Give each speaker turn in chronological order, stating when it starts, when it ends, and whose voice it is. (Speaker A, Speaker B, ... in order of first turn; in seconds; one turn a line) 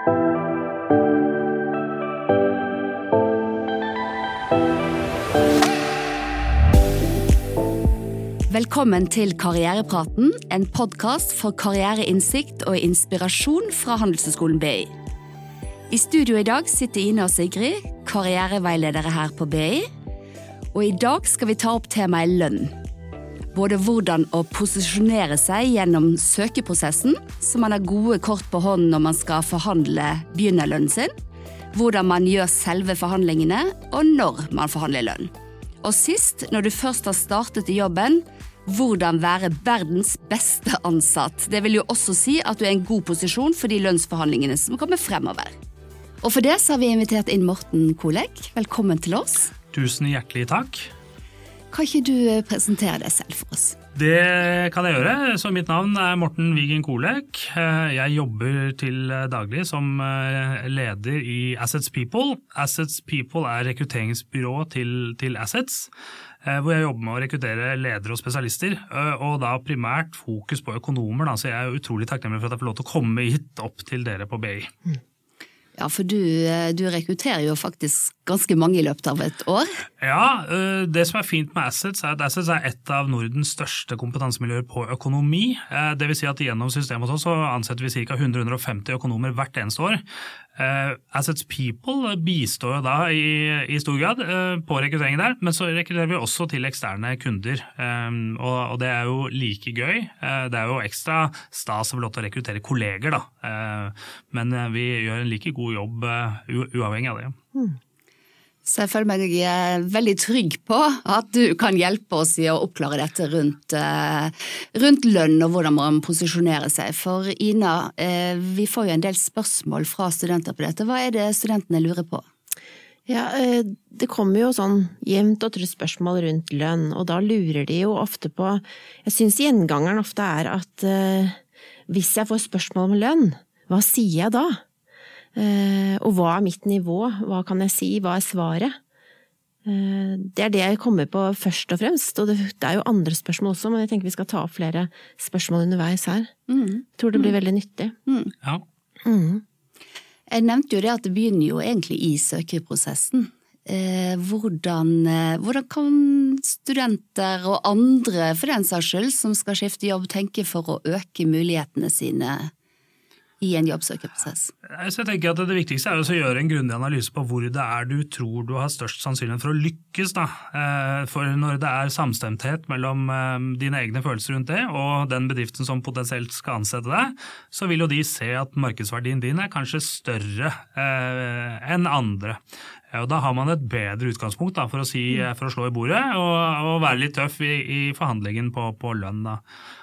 Speaker A: 8.5-14.9
Speaker A: 15.9-19.9
Speaker A: 20.7-22.8
Speaker A: 23.5-31.1
Speaker A: 31.7-35.3
Speaker A: 35.8-45.6
Speaker A: 46.2-49.5
Speaker B: 49.7-50.9
Speaker A: 51.7-53.8
Speaker B: 54.0-65.9
Speaker B: 66.4-74.7
Speaker A: 75.8-79.7
Speaker B: 80.0-90.0
Speaker B: 90.6-107.4
Speaker A: 108.7-122.2
Speaker C: 123.1-134.6
Speaker C: 135.3-138.8
Speaker C: 139.7-146.3
Speaker A: 146.5-147.3
Speaker C: 147.0-147.9
Speaker A: 148.1-148.3
Speaker C: 149.1-149.4
Speaker A: 150.3-162.5
Speaker A: 163.4-164.5
Speaker B: 164.7-182.4
Speaker B: 182.9-189.4